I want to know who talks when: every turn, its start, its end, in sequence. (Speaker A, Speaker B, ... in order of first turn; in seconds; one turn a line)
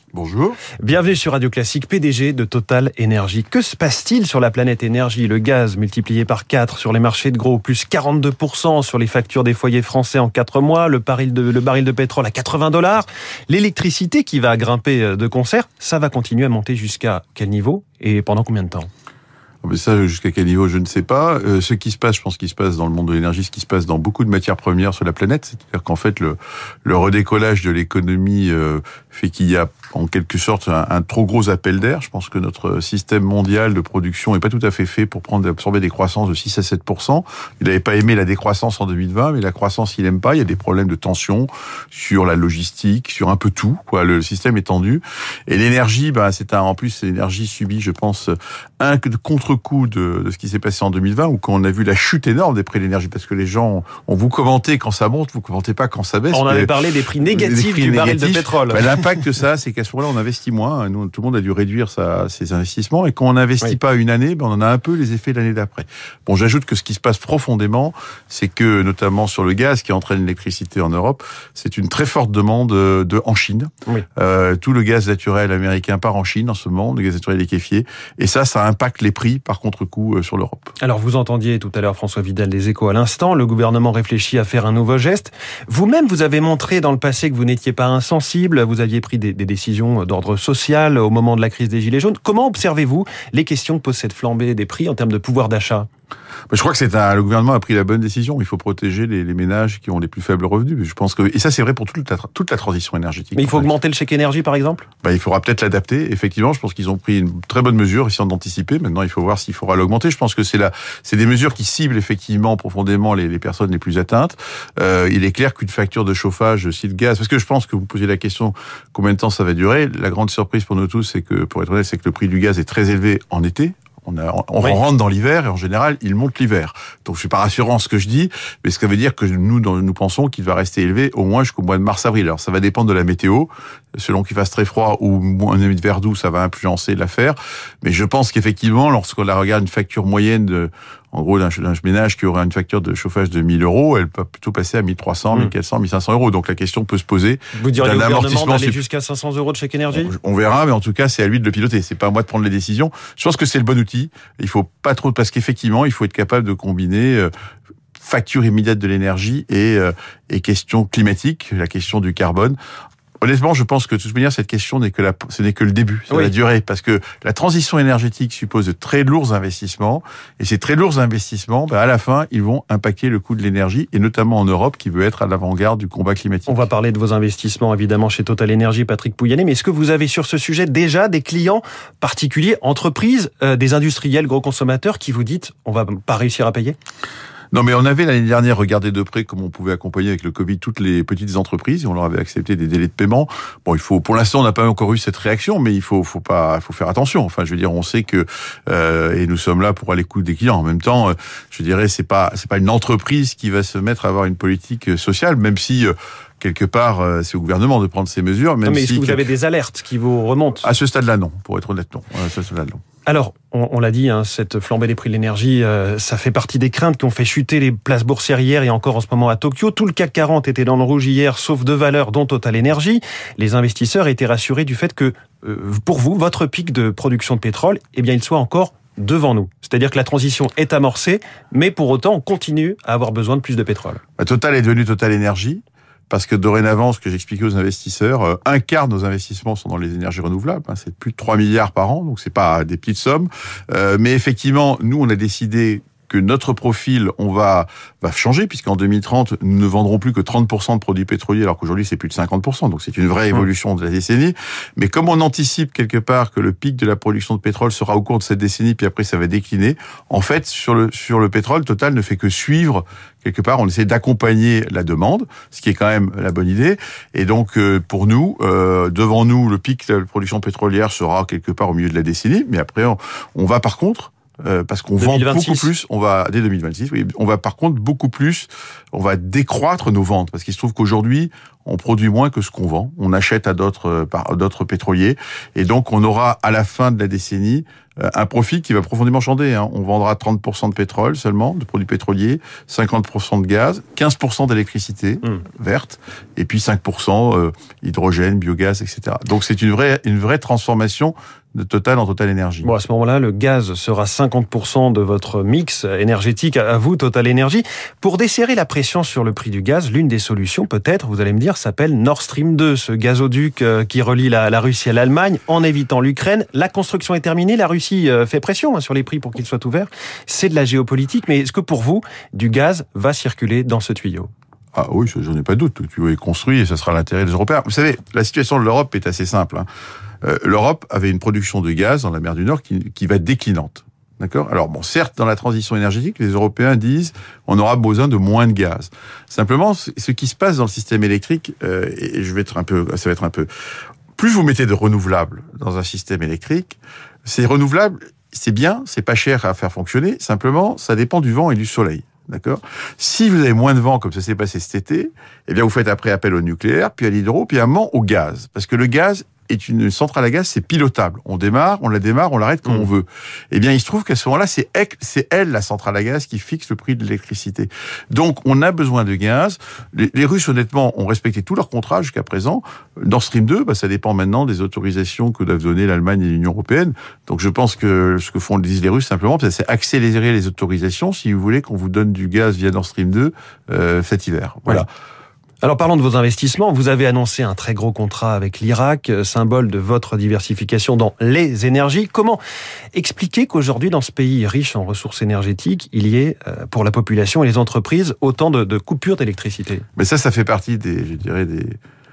Speaker A: 0.1-0.6
Speaker B: 0.8-18.9
Speaker A: 19.6-80.7
Speaker B: 56.3-59.1
Speaker B: 80.8-95.9
Speaker A: 96.5-103.7
Speaker B: 103.3-104.8
Speaker A: 105.0-148.8
Speaker B: 147.5-150.1
Speaker A: 149.9-157.3
Speaker A: 158.0-162.6
Speaker A: 163.2-176.7
Speaker B: 176.5-186.8
Speaker A: 187.5-209.2
Speaker B: 208.6-210.7
Speaker A: 210.6-212.8
Speaker B: 213.0-234.0
Speaker A: 234.2-302.7
Speaker B: 275.0-275.7
Speaker B: 302.6-324.3
Speaker A: 324.7-329.7
Speaker A: 330.2-343.5
Speaker A: 344.2-384.9
Speaker B: 385.6-392.4
Speaker B: 392.9-399.9
Speaker A: 400.0-401.8